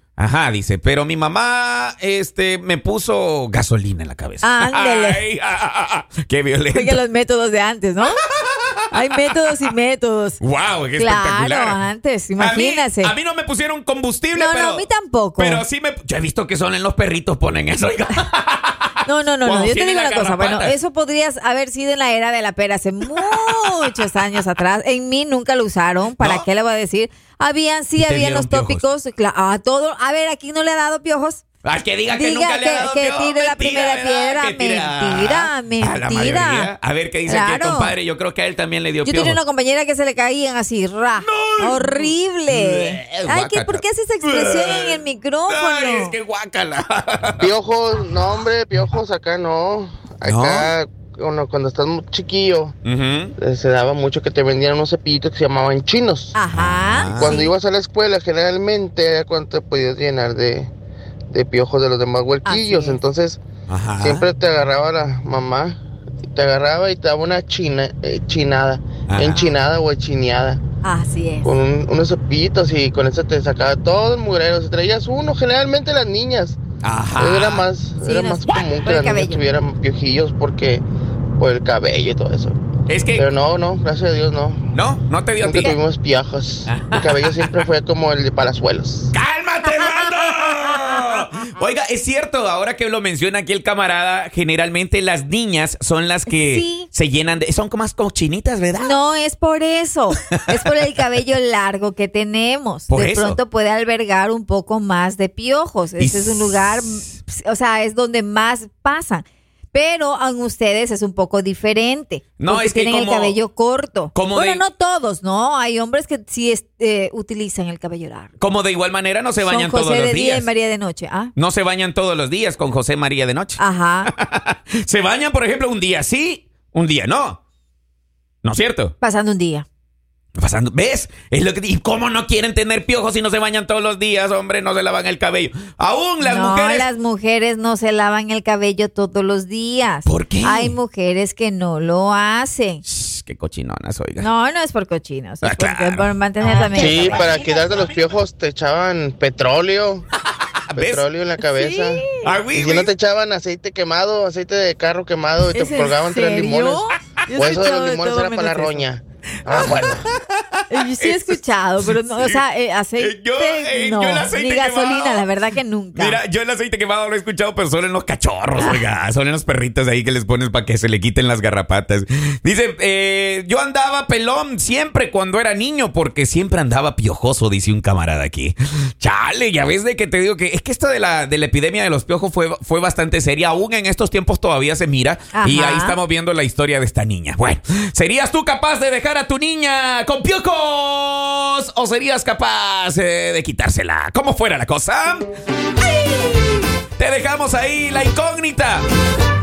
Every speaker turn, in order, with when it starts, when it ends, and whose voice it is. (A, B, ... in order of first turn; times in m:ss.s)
0:00.2-0:07.0 A
0:04.4-0:05.2 B
0:06.7-0:08.2 B
0:08.3-0:09.2 A
0:08.9-0:10.4 B
0:10.4-0:11.8 A
0:11.0-0:13.1 B
0:12.4-0:14.8 A
0:14.3-0:15.6 B
0:15.4-0:18.9 A
0:19.0-0:31.4 B
0:19.4-0:20.8 A
0:23.1-0:24.2 A
0:26.2-0:26.4 A
0:28.0-0:28.8 A
0:31.6-0:39.4 A
0:32.1-0:36.7 B
0:37.2-0:37.9 B
0:39.0-0:46.1 B
0:41.2-0:47.5 A
0:47.4-0:52.7 C
0:50.2-0:50.7 A
0:52.8-0:53.3 A
0:53.4-0:56.4 C
0:56.3-0:57.5 B
0:56.5-0:57.4 A
0:57.1-1:00.7 C
1:01.3-1:03.4 C
1:02.4-1:03.0 B
1:03.7-1:04.2 A
1:04.0-1:05.8 C
1:06.3-1:10.6 C
1:09.1-1:09.5 A
1:10.8-1:11.5 B
1:11.4-1:16.6 C
1:16.8-1:17.7 A
1:17.2-1:20.8 C
1:18.0-1:19.4 B
1:21.4-1:22.6 C
1:22.9-1:23.3 A
1:23.1-1:24.7 C
1:24.7-1:25.8 A
1:25.4-1:29.1 C
1:26.7-1:27.6 A
1:29.1-1:39.0 A
1:36.3-1:36.9 B
1:38.8-1:58.3 B
1:42.9-1:43.4 A
1:46.0-1:46.8 A
1:52.4-1:53.4 A
1:54.1-1:54.6 A
1:58.4-2:00.5 A
1:59.4-2:01.3 B
2:01.4-2:07.4 A
2:03.6-2:04.1 B
2:08.4-2:08.9 A
2:09.0-2:09.6 B
2:10.4-2:16.9 A
2:16.2-2:22.8 B
2:20.0-2:20.8 A
2:22.8-2:24.3 A
2:24.2-2:27.4 B
2:25.4-2:27.6 A
2:26.6-2:30.0 C
2:30.2-2:31.1 A
2:30.7-2:40.1 C
2:31.5-2:32.3 B
2:32.2-2:32.9 A
2:35.5-2:38.8 B
2:39.5-2:42.4 A
2:40.7-2:46.2 B
2:43.0-2:45.3 A
2:45.9-3:15.3 A
2:48.6-2:48.8 B
3:05.3-3:06.0 B
3:15.8-3:18.8 A